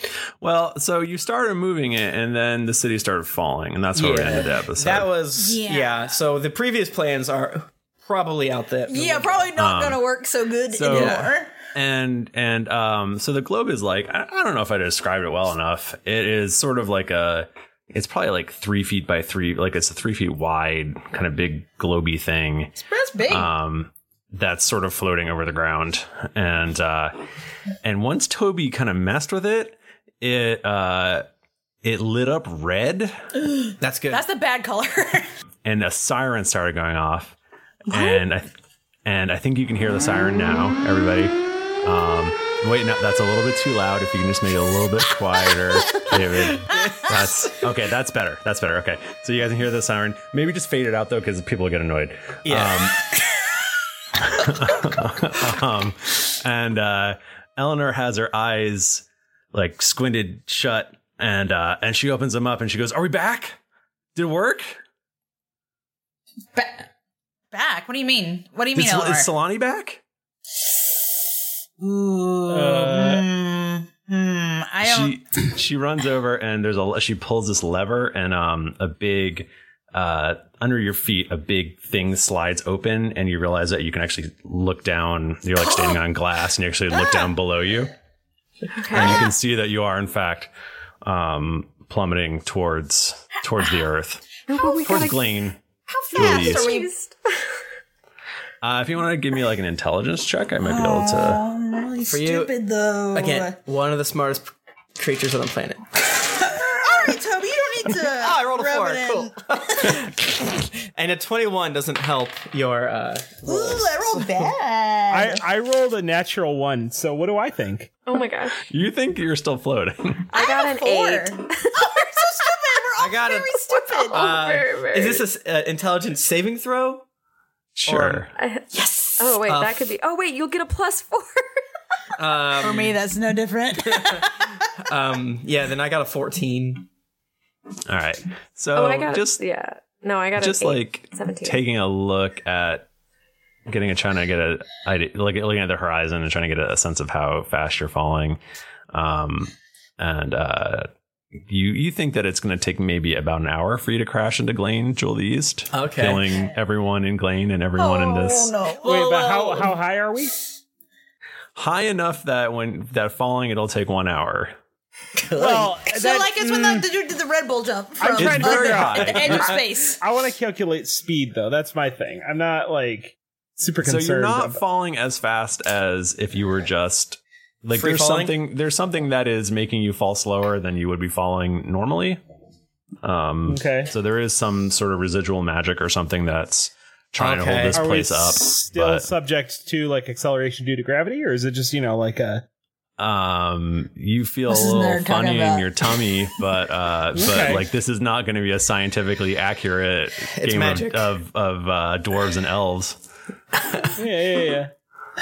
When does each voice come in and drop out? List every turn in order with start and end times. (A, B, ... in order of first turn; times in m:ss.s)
0:00.4-0:05.1 A
0:04.0-0:09.5 B
0:05.4-0:06.2 C
0:08.9-0:11.5 C
0:09.6-0:10.0 A
0:10.7-0:27.2 A
0:10.9-0:11.3 B
0:22.8-0:23.5 C
0:27.8-0:31.2 A
0:31.8-0:33.2 A
0:33.8-0:34.2 B
0:34.1-0:35.3 C
0:35.6-0:37.4 A
0:37.9-0:38.5 A
0:37.9-0:38.2 C
0:39.0-0:53.0 A
0:46.7-0:47.5 B
0:52.4-0:53.0 B
0:54.3-1:03.6 A
1:04.2-1:04.8 A
1:06.6-1:06.8 C
1:07.5-1:09.3 C
1:08.8-1:10.0 A
1:11.8-1:15.2 C
1:12.5-1:13.3 D
1:14.8-1:27.9 A
1:25.6-1:26.0 C
1:26.9-1:27.3 C
1:28.8-1:29.3 E
1:28.9-1:30.5 A
1:28.9-1:29.2 C
1:31.0-1:35.6 A
1:34.5-1:35.3 E
1:35.9-1:36.9 C
1:36.1-1:37.5 E
1:36.1-1:36.8 A
1:38.6-1:41.4 A
1:40.6-1:43.6 C
1:42.1-1:42.5 B
1:43.1-1:45.9 B
1:46.4-1:50.0 C
1:47.9-1:53.9 B
1:53.4-1:55.4 C
1:55.1-1:58.0 D
1:58.0-1:58.6 E
1:58.6-2:00.3 A
2:00.3-2:01.9 E
2:00.3-2:04.4 C
2:03.0-2:07.0 B
2:03.7-2:05.2 E
2:07.8-2:08.3 A
2:07.9-2:08.3 B
2:08.3-2:08.7 E
2:09.2-2:11.5 E
2:09.4-2:09.8 B
2:12.2-2:13.0 B
2:12.6-2:14.5 C
2:13.9-2:14.3 B
2:14.8-2:16.9 B
2:17.9-2:19.4 A
2:18.8-2:21.6 E
2:20.4-2:22.9 A
2:23.7-2:28.4 A
2:28.9-2:30.9 A
2:31.5-2:38.5 A
2:35.7-2:36.4 B
2:37.8-2:39.6 C
2:38.8-2:40.4 D
2:38.8-2:39.6 B
2:41.6-2:44.6 A
2:45.3-2:46.9 D
2:45.4-2:50.0 C
2:48.0-2:54.6 D
2:48.1-2:49.6 A
2:53.8-3:02.2 A
2:57.7-2:58.4 B
3:03.0-3:09.1 A
3:03.5-3:03.9 D
3:07.2-3:07.9 B
3:07.7-3:12.4 D
3:13.0-3:23.0 A
3:14.5-3:16.0 C
3:17.2-3:17.7 D
3:20.3-3:21.2 B
3:24.0-3:24.7 D